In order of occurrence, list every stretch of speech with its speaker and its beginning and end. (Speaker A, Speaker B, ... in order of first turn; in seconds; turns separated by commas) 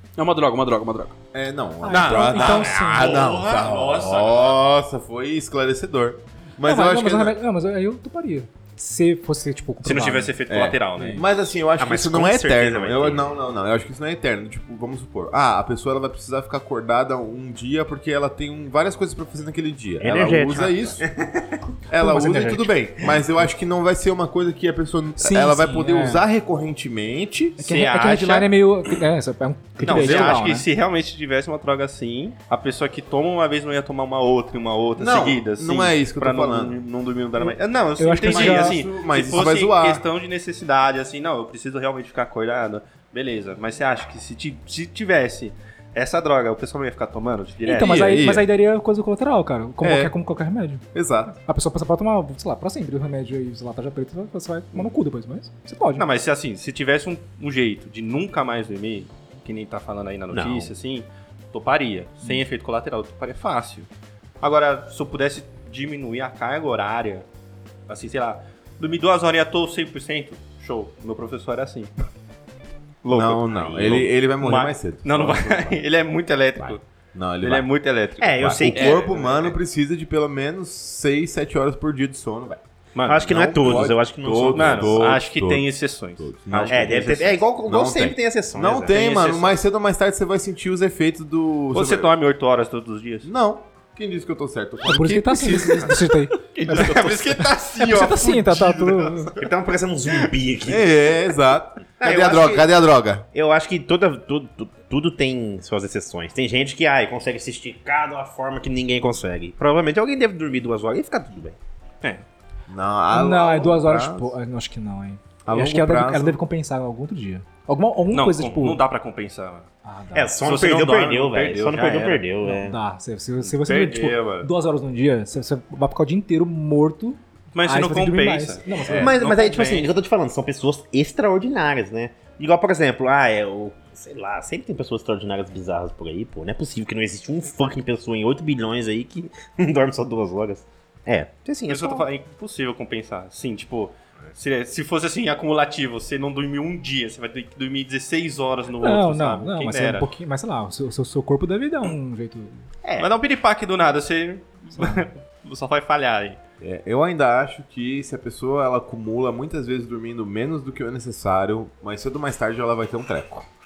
Speaker A: 0.2-1.2, Speaker B: 1.3-7.4, Speaker C: 1.8-3.2, Speaker D: 1.9-4.6, Speaker C: 6.6-10.4, Speaker D: 9.8-11.4, Speaker B: 10.5-21.0, Speaker E: 11.8-13.3, Speaker E: 20.0-21.5, Speaker B: 21.9-27.6, Speaker C: 22.0-22.7, Speaker E: 22.1-23.1, Speaker C: 25.2-26.2, Speaker C: 27.6-30.7, Speaker D: 27.6-28.4, Speaker D: 29.8-48.1, Speaker B: 29.9-30.4, Speaker B: 35.0-36.8, Speaker C: 38.0-38.8, Speaker B: 38.2-40.0, Speaker C: 47.6-56.1, Speaker B: 47.7-48.5, Speaker B: 49.8-50.1, Speaker B: 50.9-51.3, Speaker D: 56.0-63.9, Speaker E: 60.3-60.7, Speaker D: 64.4-67.3, Speaker D: 67.9-71.9, Speaker D: 73.0-76.8, Speaker B: 73.1-75.8, Speaker E: 73.7-74.0, Speaker B: 76.6-77.7, Speaker D: 77.4-79.5, Speaker E: 78.2-79.1, Speaker B: 78.4-82.6, Speaker D: 83.0-84.0, Speaker E: 83.0-85.1, Speaker B: 83.2-85.7, Speaker D: 84.5-87.5, Speaker B: 86.2-92.1, Speaker E: 86.7-89.1, Speaker D: 88.9-89.5, Speaker D: 91.7-93.3, Speaker B: 93.2-96.0, Speaker C: 94.9-96.8, Speaker A: 96.4-97.5, Speaker D: 96.7-99.3, Speaker C: 97.8-99.3, Speaker E: 99.4-100.9, Speaker B: 100.7-103.3, Speaker E: 102.0-102.7, Speaker E: 103.3-111.6, Speaker B: 112.7-114.3, Speaker C: 113.1-118.8, Speaker B: 115.5-116.4, Speaker D: 118.1-119.7, Speaker C: 119.8-120.3, Speaker E: 120.1-122.8, Speaker D: 120.4-122.3, Speaker C: 122.4-129.3, Speaker D: 123.4-124.5, Speaker D: 127.5-129.9, Speaker E: 128.9-142.1, Speaker D: 141.7-150.1, Speaker C: 148.8-152.6, Speaker E: 152.8-153.1, Speaker D: 153.0-156.4, Speaker C: 154.8-155.1, Speaker B: 156.6-163.5